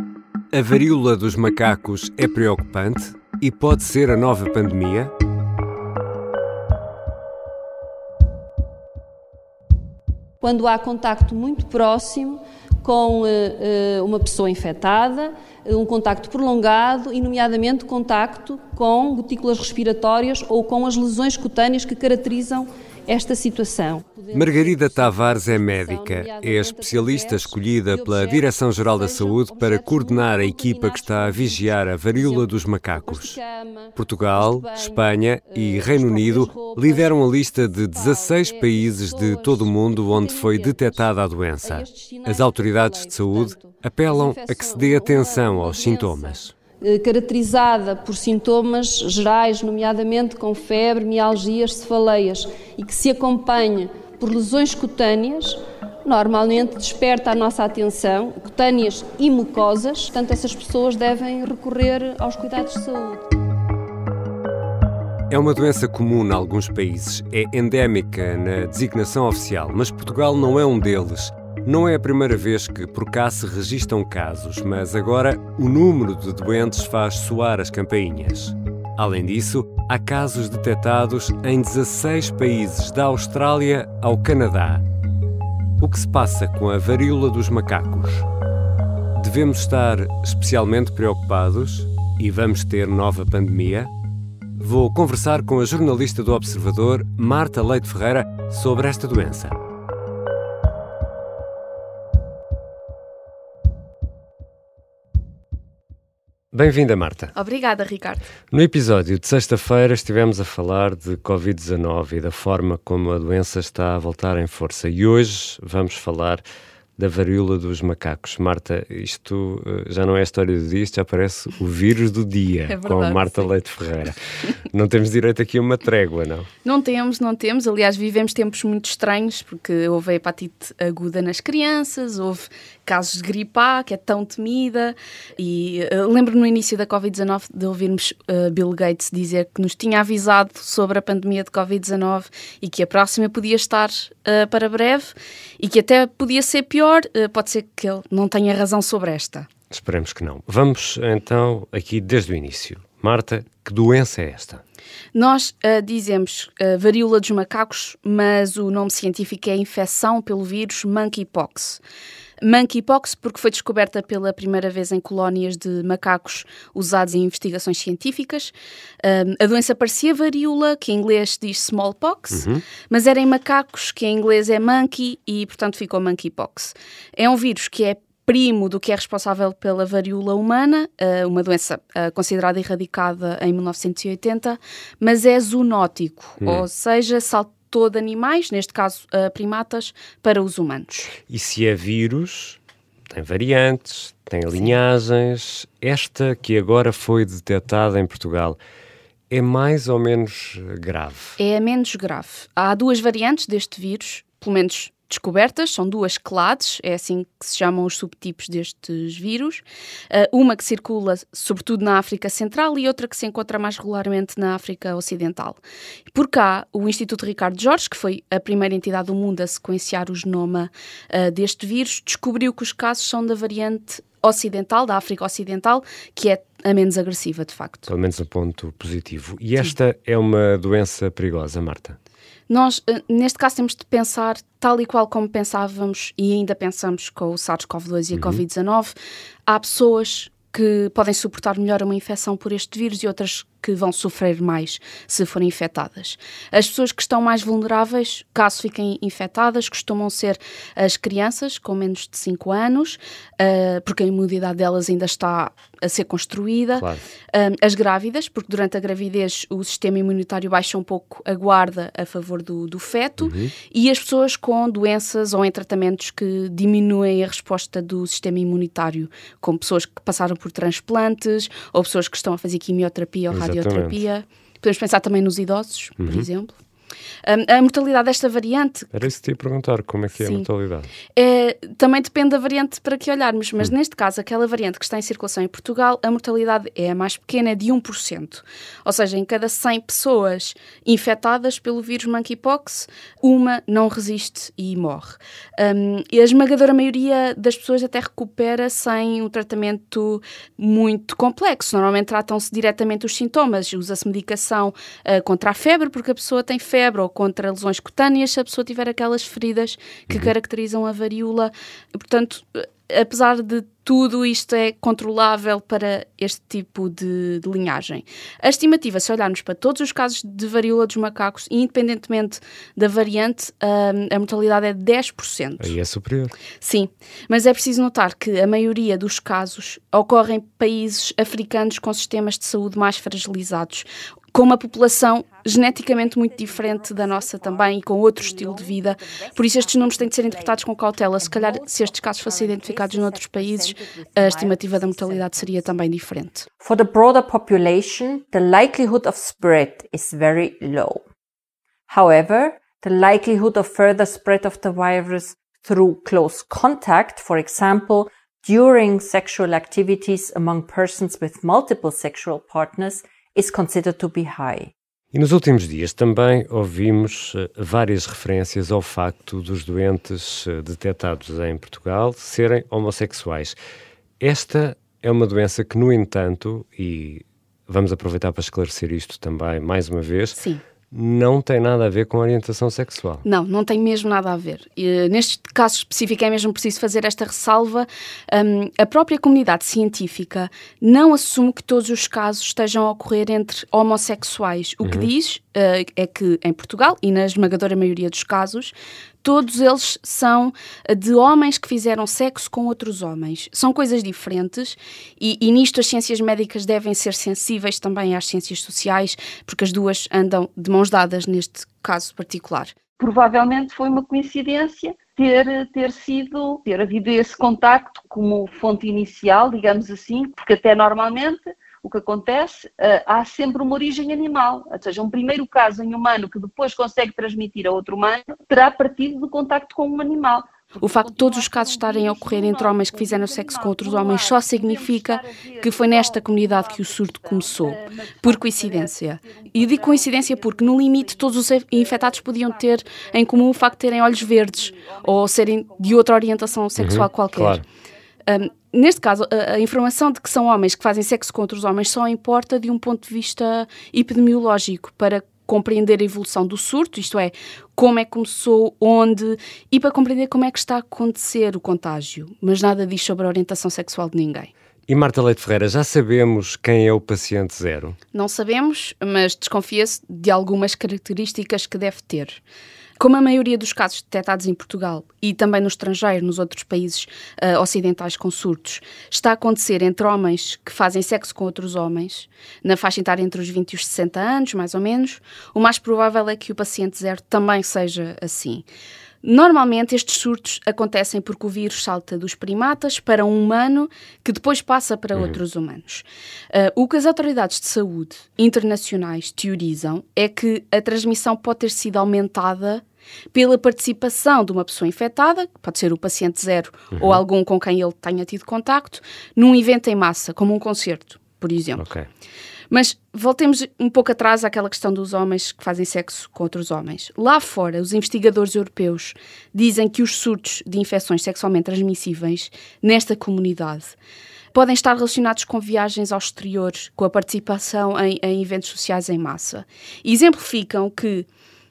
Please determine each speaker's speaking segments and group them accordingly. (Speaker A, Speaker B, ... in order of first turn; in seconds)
Speaker A: 0.5-5.1, 24.3-33.4, 34.0-46.5, 65.3-84.8, 85.8-88.3, 89.2-93.9, 94.5-99.6, 106.5-107.3, 108.5-116.4, 117.0-124.2, 124.7-126.5, 149.7-154.6, 172.3-172.6, 191.3-192.6, 193.1-198.6, 199.3-201.4, 227.9-232.0, 238.1-238.4, 256.8-257.0, 263.2-263.5, 273.3-274.0, 276.0-276.3, 278.9-280.9, 325.6-326.4, 365.1-373.6, 374.2-380.4, 380.9-383.2, 394.8-395.1, 446.8-447.6, 464.9-468.0, 506.9-507.2, 511.8-512.1
Speaker B: 10.4-63.2
Speaker C: 107.3-108.3, 122.7-123.5, 126.6-149.5, 155.1-161.8, 162.4-191.2, 201.4-215.6, 216.1-227.9, 232.5-238.9, 239.5-276.6, 277.2-279.1, 280.1-280.5, 281.1-325.8, 326.6-346.5, 380.4-380.6, 383.2-412.8, 430.8-447.6, 448.3-464.5, 468.1-472.4, 473.0-488.6, 489.2-511.9, 512.7-524.0, 524.5-531.3
Speaker D: 341.2-345.7, 346.6-351.0, 351.9-364.7
Speaker E: 413.0-446.0